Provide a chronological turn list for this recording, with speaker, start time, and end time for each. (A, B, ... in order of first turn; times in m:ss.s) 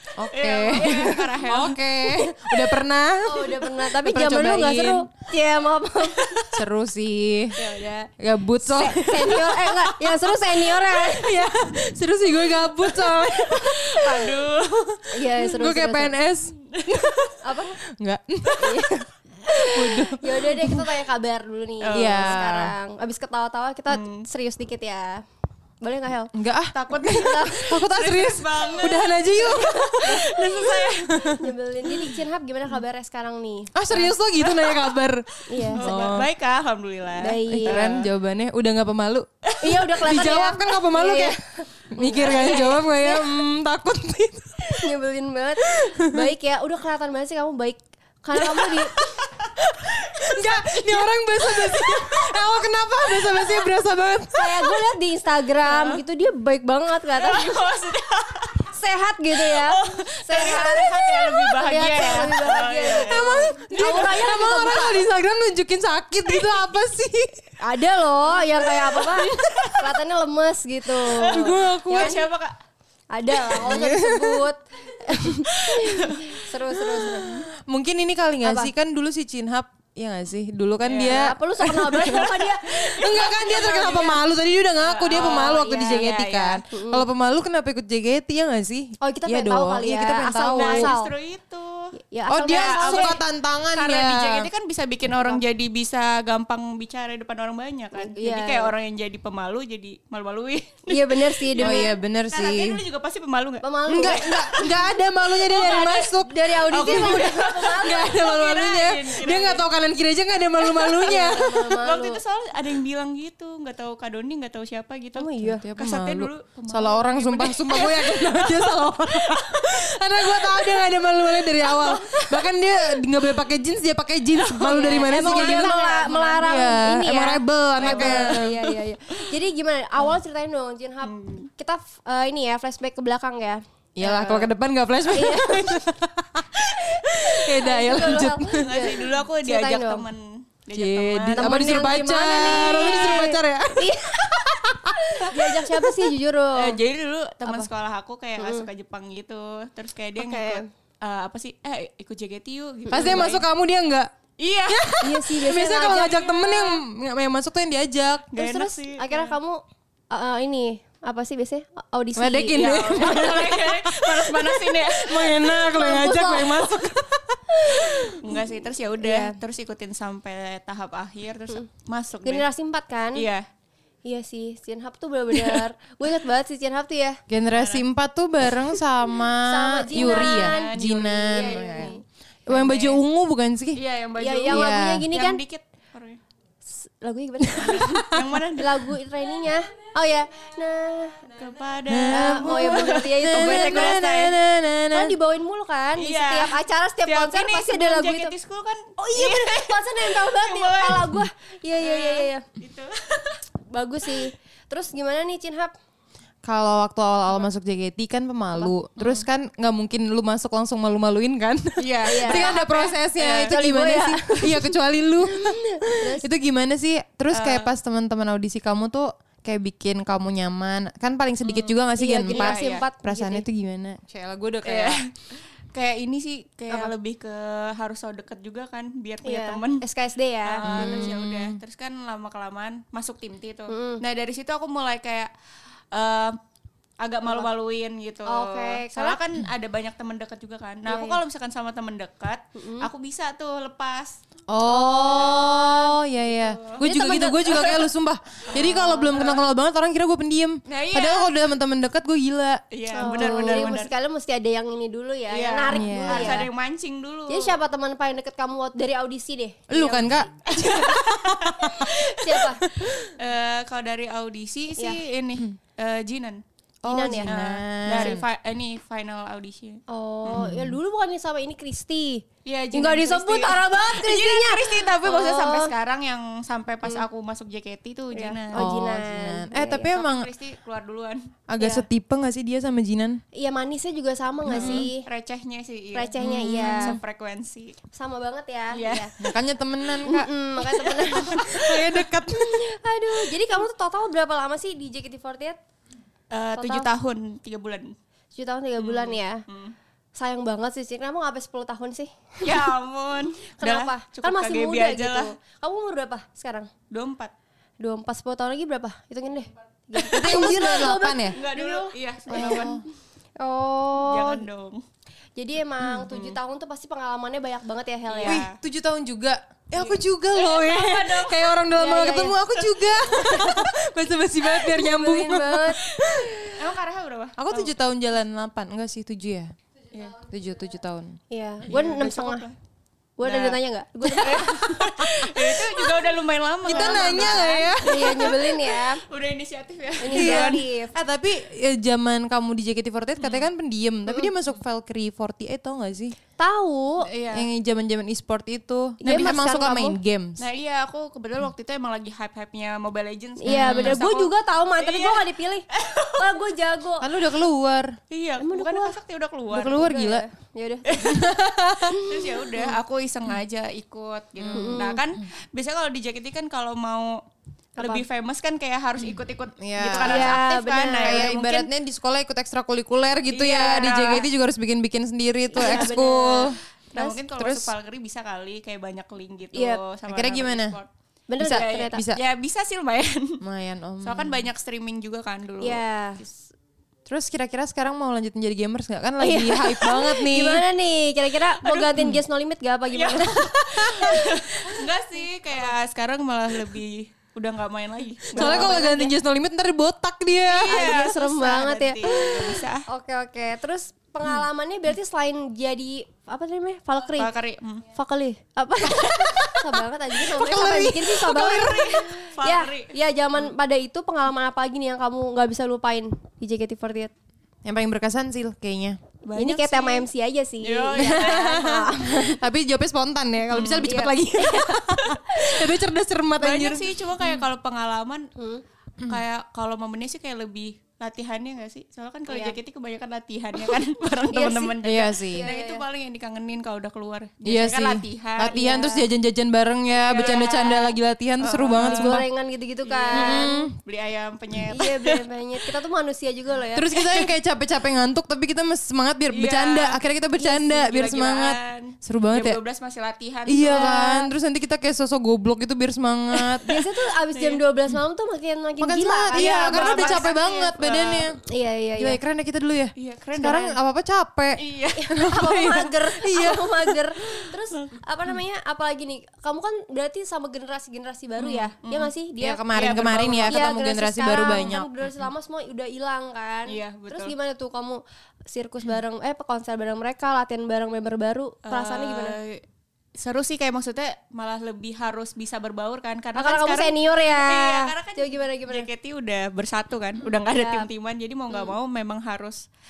0:00.2-0:05.1 A
0:00.3-0:01.8 B
0:00.7-0:01.1 C
0:03.2-0:06.4 C
0:06.5-0:07.6 A
0:07.6-0:11.3 C
0:08.2-0:14.4 A
0:12.8-0:15.1 B
0:15.1-0:16.2 C
0:15.3-0:17.1 A
0:16.7-0:17.2 B
0:17.4-0:17.8 C
0:17.9-0:18.9 A
0:18.6-0:25.2 C
0:19.7-0:20.9 A
0:21.8-0:22.4 B
0:21.9-0:22.7 A
0:23.9-0:24.2 B
0:25.8-0:26.3 C
0:26.3-0:30.3 A
0:26.7-0:31.3 B
0:27.0-0:27.6 C
0:29.4-0:30.8 C
0:30.9-0:31.4 A
0:31.3-0:33.8 C
0:33.7-0:36.3 A
0:33.9-0:34.9 B
0:35.5-0:35.9 C
0:35.8-0:38.1 B
0:37.2-0:37.9 C
0:37.5-0:39.3 A
0:39.6-0:43.3 C
0:39.9-0:41.4 A
0:41.9-0:44.9 A
0:44.7-0:48.9 C
0:45.7-0:46.3 A
0:49.0-0:49.3 B
0:49.9-0:54.8 A
0:49.9-0:51.0 B
0:51.6-0:52.3 B
0:53.2-0:53.5 B
0:54.4-0:57.6 C
0:55.6-0:56.0 B
0:57.1-0:58.7 B
0:58.7-1:05.0 C
0:59.4-1:04.8 B
1:02.9-1:07.5 A
1:07.6-1:12.2 C
1:08.8-1:09.8 B
1:08.9-1:09.7 A
1:11.1-1:12.6 B
1:11.3-1:12.2 A
1:13.1-1:17.5 C
1:13.6-1:14.5 A
1:15.5-1:16.2 B
1:16.8-1:30.9 A
1:18.4-1:18.7 C
1:20.8-1:21.3 B
1:21.0-1:23.0 C
1:22.0-1:24.2 B
1:24.8-1:26.6 B
1:25.1-1:25.7 C
1:26.7-1:27.0 C
1:29.0-1:31.1 C
1:30.5-1:31.9 B
1:32.0-1:33.2 C
1:32.3-1:34.5 A
1:32.5-1:33.2 B
1:33.7-1:44.7 B
1:38.0-1:38.7 C
1:40.9-1:41.9 C
1:41.6-1:42.8 A
1:43.6-1:44.4 C
1:43.9-1:51.6 A
1:45.5-1:48.2 C
1:45.7-1:46.0 B
1:46.7-1:49.6 B
1:50.7-1:58.6 B
1:51.0-1:52.2 C
1:55.2-1:55.6 C
1:55.6-2:08.5 A
2:01.8-2:02.5 C
2:04.6-2:14.5 C
2:04.7-2:06.4 B
2:07.8-2:08.8 B
2:11.0-2:11.5 B
2:14.0-2:18.7 A
2:15.1-2:15.8 C
2:17.2-2:20.0 C
2:18.5-2:21.8 B
2:20.7-2:26.1 A
2:21.3-2:24.4 C
2:22.4-2:23.3 B
2:24.9-2:26.8 C
2:26.6-2:33.4 B
2:28.4-2:28.7 C
2:30.2-2:30.7 C
2:32.9-2:33.3 C
2:32.9-2:34.1 A
2:34.4-2:35.3 B
2:34.7-2:38.4 A
2:35.0-2:36.5 C
2:35.8-2:36.6 B
2:38.3-2:39.4 B
2:38.4-2:43.3 C
2:42.2-2:48.0 A
2:42.5-2:46.9 B
2:45.7-2:46.7 C
2:47.5-2:48.0 C
2:47.9-2:52.5 B
2:49.0-2:49.4 C
2:52.2-2:53.3 C
2:53.2-2:53.5 B
2:54.0-2:57.2 C
2:57.3-3:01.9 A
2:57.5-2:57.8 B
2:59.4-3:00.7 C
2:59.9-3:02.0 B
3:01.3-3:02.0 C
3:02.5-3:03.8 A
3:02.5-3:03.0 B
3:03.8-3:06.2 B
3:04.2-3:05.4 C
3:04.5-3:05.1 A
3:06.7-3:11.4 C
3:07.6-3:08.9 B
3:11.4-3:14.4 B
3:11.9-3:15.2 A
3:12.1-3:14.1 C
3:14.9-3:18.3 C
3:16.0-3:21.2 B
3:19.0-3:22.4 C
3:21.8-3:23.4 B
3:23.7-3:25.8 C
3:26.4-3:45.0 A
3:31.8-3:33.6 B
3:32.1-3:32.6 C
3:33.2-3:34.7 C
3:35.3-3:36.3 C
3:37.3-3:37.7 B
3:41.4-3:42.8 B
3:42.0-3:43.4 C
3:44.6-3:49.8 B
3:49.2-3:51.1 C
3:50.4-3:55.3 B
3:50.7-3:51.6 A
3:53.7-3:54.0 C
3:55.9-3:56.4 B
3:57.0-4:04.2 B
3:58.3-3:59.2 C
4:00.9-4:01.2 C
4:02.6-4:02.9 C
4:04.5-4:13.7 A
4:04.6-4:05.9 C
4:05.1-4:05.5 B
4:06.3-4:06.8 B
4:06.8-4:07.7 C
4:07.4-4:07.8 B
4:08.5-4:09.4 B
4:08.6-4:09.1 C
4:10.7-4:11.3 B
4:12.7-4:13.9 B
4:12.9-4:16.5 C
4:15.3-4:17.6 B
4:15.7-4:16.5 A
4:17.3-4:20.1 C
4:19.7-4:21.8 A
4:19.8-4:22.4 B
4:21.7-4:22.6 C
4:22.7-4:23.1 A
4:23.0-4:26.4 B
4:26.8-4:28.2 A
4:26.9-4:27.3 C
4:27.3-4:30.5 B
4:29.9-4:35.7 C
4:30.3-4:30.8 A
4:32.4-4:38.7 B
4:38.1-4:39.9 C
4:38.5-4:40.3 A
4:39.9-4:41.3 B
4:41.5-4:43.2 A
4:41.6-4:41.8 C
4:43.3-4:45.1 C
4:44.5-4:44.9 A
4:44.5-4:47.8 B
4:45.9-4:47.0 C
4:46.2-4:47.0 A
4:47.9-4:49.1 C
4:48.7-4:49.1 B
4:49.2-4:50.3 A
4:50.0-4:51.6 C
4:50.8-4:51.6 B
4:51.1-4:52.7 A
4:52.3-4:55.6 C
4:56.3-4:57.9 B
4:56.6-4:56.9 C
4:58.3-4:59.4 C
4:58.8-4:59.8 B
5:00.2-5:02.7 C
5:02.4-5:05.3 B
5:03.6-5:06.7 C
5:06.9-5:07.3 B
5:07.8-5:12.7 C
5:10.1-5:11.3 A
5:11.3-5:12.8 B
5:12.3-5:12.8 A
5:13.4-5:14.4 C
5:14.0-5:14.8 B
5:15.4-5:18.4 C
5:16.1-5:16.4 B
5:18.1-5:18.6 B
5:18.2-5:26.4 A
5:19.8-5:21.6 B
5:21.7-5:22.4 C
5:22.6-5:23.4 B
5:24.6-5:26.6 C
5:25.9-5:27.7 B
5:27.4-5:29.5 A
5:30.2-5:31.2 A
5:31.3-5:32.4 C
5:31.7-5:32.6 B
5:33.2-5:34.8 C
5:33.2-5:33.6 B
5:34.2-5:40.6 B
5:34.4-5:35.4 A
5:36.6-5:38.4 A
5:36.7-5:39.0 C
5:40.0-5:40.9 C
5:40.1-5:46.2 A
5:43.2-5:43.4 B
5:46.4-5:47.1 C
5:47.0-5:47.5 B
5:47.3-5:50.4 A
5:49.0-5:50.0 C
5:49.1-5:49.3 B
5:50.4-5:56.4 B
5:53.4-5:57.1 C
5:53.5-5:54.0 A
5:57.0-5:58.0 A
5:58.1-5:59.8 B
5:58.4-5:59.0 C
5:59.5-6:00.2 A
5:59.6-6:01.2 C
6:00.9-6:01.3 B
6:01.0-6:02.0 A
6:01.9-6:02.7 C
6:01.9-6:07.2 B
6:04.4-6:04.9 A
6:04.5-6:05.0 C
6:07.8-6:08.0 C
6:07.8-6:11.7 B
6:09.6-6:10.4 A
6:10.0-6:11.3 C
6:11.0-6:16.6 A
6:13.3-6:14.2 B
6:13.5-6:14.2 C
6:15.5-6:17.2 C
6:15.6-6:20.9 B
6:17.4-6:17.7 A
6:19.5-6:19.8 C
6:20.1-6:20.8 A
6:21.3-6:22.0 C
6:21.4-6:22.2 A
6:21.4-6:23.4 B
6:23.4-6:24.5 A
6:24.0-6:25.8 B
6:25.6-6:26.3 C
6:27.1-6:30.6 A
6:29.2-6:34.3 C
6:31.6-6:32.0 B
6:32.9-6:38.8 B
6:38.3-6:39.1 C
6:38.3-6:40.8 A
6:40.5-6:42.8 B
6:40.7-6:47.3 C
6:47.2-6:47.8 B
6:47.9-6:57.1 C
6:49.1-6:51.6 A
6:51.2-6:52.9 B
6:57.6-6:59.0 A
6:59.2-7:00.1 B
6:59.4-7:02.4 C
7:00.6-7:01.8 B
7:01.0-7:07.3 A
7:03.5-7:04.0 B
7:03.8-7:04.8 C
7:06.4-7:08.3 B
7:08.4-7:08.6 C
7:09.0-7:18.8 B
7:12.3-7:12.6 C
7:14.3-7:14.8 C
7:14.8-7:15.5 A
7:15.3-7:15.8 C
7:17.4-7:22.2 A
7:18.5-7:19.0 C
7:20.0-7:22.2 B
7:20.2-7:20.8 C
7:21.8-7:23.7 C
7:22.8-7:25.2 B
7:23.1-7:23.8 A
7:24.7-7:27.1 C
7:26.8-7:32.6 A
7:29.3-7:30.0 B
7:30.4-7:30.8 C
7:30.7-7:34.1 B
7:33.5-7:36.7 A
7:33.6-7:34.2 C
7:36.5-7:36.7 B
7:36.6-7:40.3 C
7:37.3-7:37.6 B
7:38.8-7:41.4 A
7:39.3-7:41.3 B
7:41.4-7:42.2 C
7:42.0-7:47.0 A
7:43.0-7:43.8 B
7:44.6-7:45.1 B
7:45.0-7:52.7 C
7:51.4-7:52.1 B
7:52.4-7:54.9 A
7:52.7-7:53.6 B
7:53.5-8:02.4 C
7:56.7-7:57.3 B
8:01.7-8:02.6 B
8:03.2-8:12.6 B
8:06.3-8:08.9 C
8:10.5-8:10.9 C